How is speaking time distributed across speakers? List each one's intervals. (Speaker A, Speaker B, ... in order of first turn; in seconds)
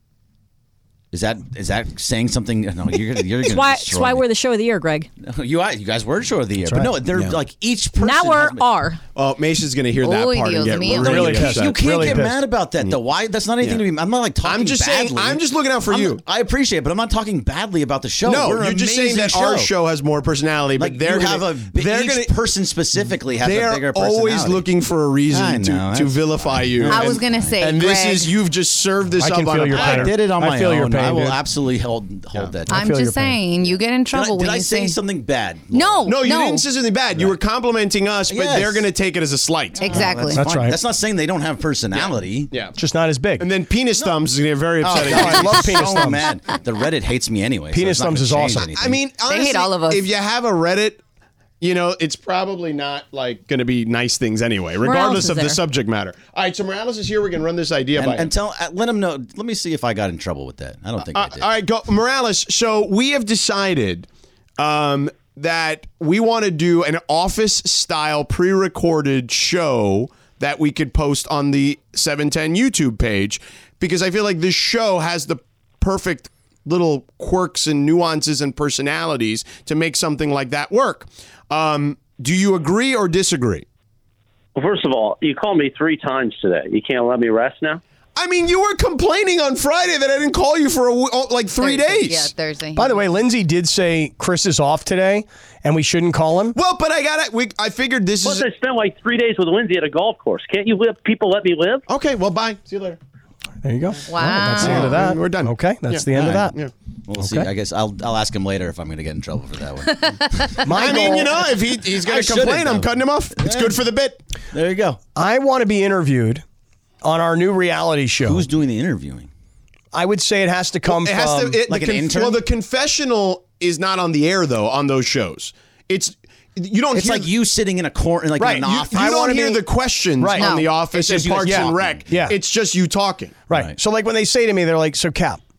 Speaker A: 1.1-4.2, 5.2-8.7, 11.1-19.7, 20.8-24.7, 25.3-27.6, 29.7-32.8, 34.1-36.1, 38.3-38.9, 39.9-42.5, 44.8-49.0, 58.0-61.5, 106.1-106.5, 107.1-110.6, 111.4-113.8, 114.5-115.0, 118.2-119.3, 121.7-122.4, 126.9-129.5, 130.8-132.1
Speaker B: 3.4-5.1, 8.0-9.0, 54.8-55.6
Speaker C: 6.7-6.9, 10.9-12.4, 29.2-31.4, 32.7-33.4, 40.3-40.8, 42.8-43.5, 44.9-46.4, 47.7-48.7, 92.8-96.6, 103.6-106.5, 107.2-107.5, 110.6-111.4, 115.2-116.4, 117.0-118.5, 119.9-121.6, 128.4-129.6, 130.2-130.6, 131.4-132.3, 133.5-135.4
Speaker D: 9.2-12.2, 14.4-16.2, 18.2-22.3, 23.4-30.1, 36.0-40.3, 41.9-42.8, 43.4-46.1, 48.7-51.0, 51.6-58.3, 61.0-64.1, 64.6-83.7, 88.2-92.3, 96.5-98.5, 101.9-103.0, 104.5-106.7, 110.7-114.2, 120.9-127.3, 128.6-133.5
Speaker E: 10.0-11.5, 26.9-28.3, 32.7-35.0, 35.7-36.6, 39.8-40.4, 49.3-50.1, 91.6-93.0, 104.1-105.0, 130.4-130.7
Speaker F: 84.6-87.8, 98.2-101.8